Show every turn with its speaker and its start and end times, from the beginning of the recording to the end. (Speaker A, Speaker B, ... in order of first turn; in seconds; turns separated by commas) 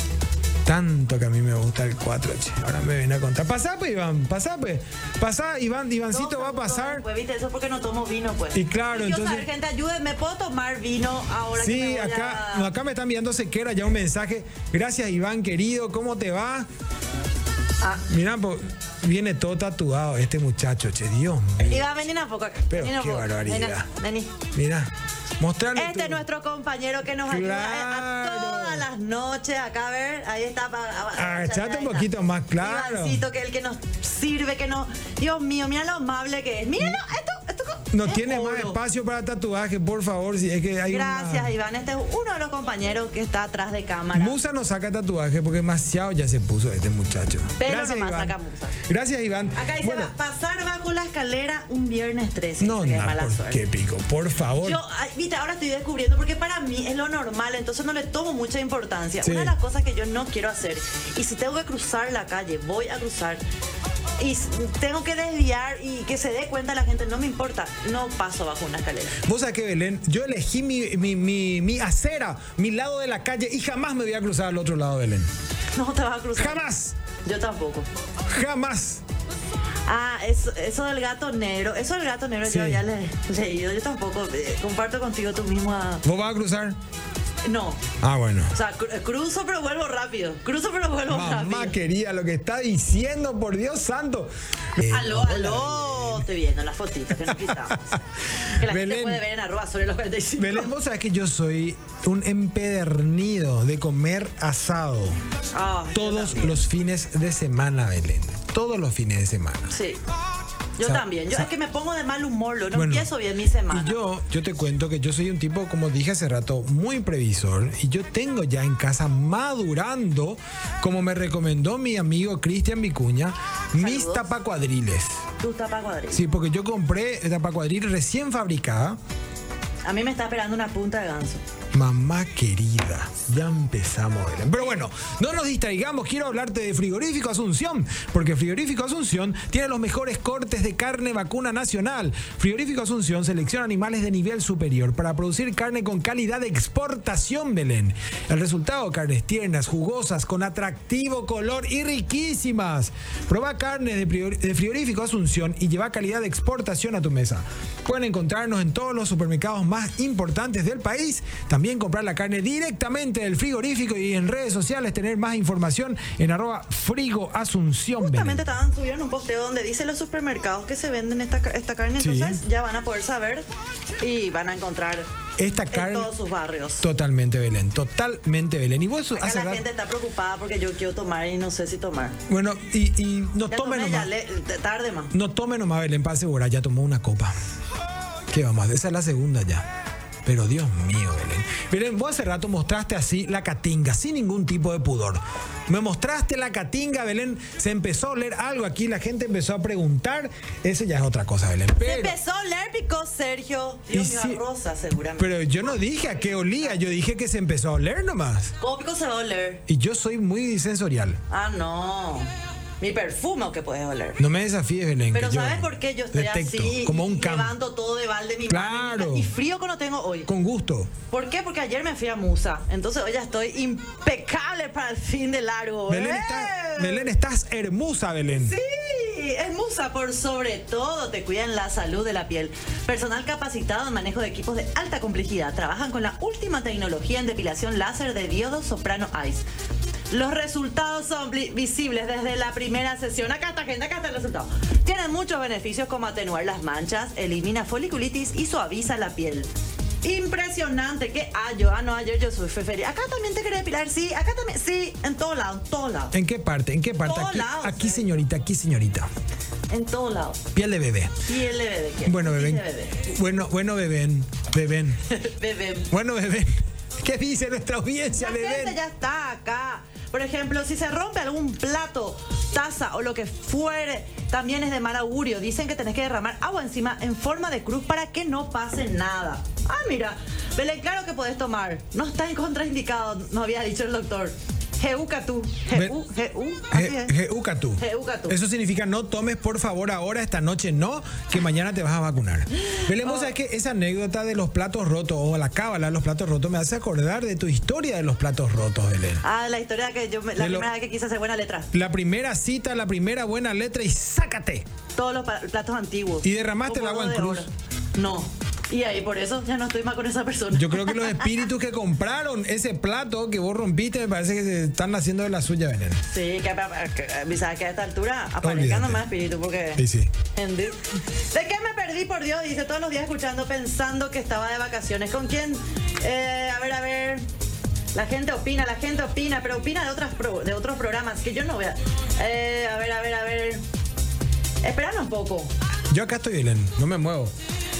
Speaker A: 0.6-7.0, Speaker B: 6.1-12.7, Speaker A: 8.5-9.4, Speaker A: 11.6-16.7, Speaker A: 18.1-21.9, Speaker B: 21.6-24.3, Speaker A: 22.7-23.9, Speaker A: 24.5-26.2, Speaker B: 25.7-38.8, Speaker A: 27.3-28.9, Speaker A: 31.1-33.2, Speaker A: 37.9-41.5, Speaker B: 40.9-44.4, Speaker A: 44.1-50.1, Speaker B: 47.6-48.8, Speaker B: 49.5-53.6, Speaker A: 52.6-54.8, Speaker B: 54.6-63.4, Speaker A: 59.2-59.5, Speaker B: 64.2-69.2, Speaker A: 69.2-75.3, Speaker B: 75.7-76.6, Speaker A: 76.3-77.0, Speaker B: 77.2-77.9, Speaker A: 78.2-79.0, Speaker B: 79.8-86.0, Speaker A: 82.4-82.8, Speaker A: 86.0-86.8, Speaker B: 87.4-87.8, Speaker A: 88.0-88.5, Speaker B: 88.5-91.8, Speaker A: 91.1-96.2, Speaker B: 94.8-98.0, Speaker A: 97.3-98.0, Speaker A: 98.5-99.2, Speaker B: 98.5-100.7, Speaker A: 100.4-105.2, Speaker B: 105.5-106.6, Speaker A: 105.9-109.7, Speaker B: 109.7-110.0, Speaker B: 110.8-114.0, Speaker A: 110.8-111.5, Speaker A: 112.7-113.1, Speaker A: 113.7-125.2, Speaker B: 123.7-124.3, Speaker B: 125.4-126.2, Speaker A: 126.1-129.0, Speaker B: 129.8-131.4, Speaker A: 131.7-168.4, Speaker B: 168.0-173.4, Speaker A: 172.0-172.4, Speaker B: 174.0-175.1, Speaker A: 175.4-176.1, Speaker B: 175.7-176.8, Speaker A: 176.8-179.6, Speaker B: 179.1-182.2, Speaker A: 182.3-184.1, Speaker B: 183.5-185.1, Speaker A: 185.1-187.3, Speaker A: 188.3-189.7, Speaker A: 190.2-202.2, Speaker B: 201.8-206.8, Speaker A: 203.9-204.4, Speaker A: 205.2-208.5, Speaker B: 208.6-209.6, Speaker A: 209.7-211.2, Speaker B: 211.3-212.3, Speaker B: 212.8-214.2, Speaker A: 214.2-217.6, Speaker B: 215.1-220.3, Speaker A: 218.5-219.3, Speaker A: 220.3-220.9, Speaker B: 221.1-227.1, Speaker A: 225.9-228.6, Speaker B: 228.3-239.4, Speaker B: 240.1-249.5, Speaker B: 250.0-256.1, Speaker A: 256.1-259.1, Speaker B: 257.0-258.1, Speaker B: 259.7-260.4, Speaker A: 260.5-261.2, Speaker B: 261.2-263.1, Speaker A: 262.1-265.0, Speaker B: 265.1-265.9, Speaker A: 265.9-268.8, Speaker B: 268.2-287.1, Speaker A: 286.7-299.2, Speaker B: 287.8-288.4, Speaker B: 292.5-293.3, Speaker B: 299.2-301.7, Speaker A: 300.4-300.7, Speaker A: 301.7-304.6, Speaker B: 305.0-311.4, Speaker A: 306.2-307.4, Speaker A: 310.5-316.0, Speaker B: 316.1-319.8, Speaker A: 318.4-319.0, Speaker A: 319.8-320.1, Speaker B: 320.3-320.8, Speaker B: 321.3-327.2, Speaker B: 327.9-333.6, Speaker B: 334.6-335.5, Speaker A: 335.9-337.3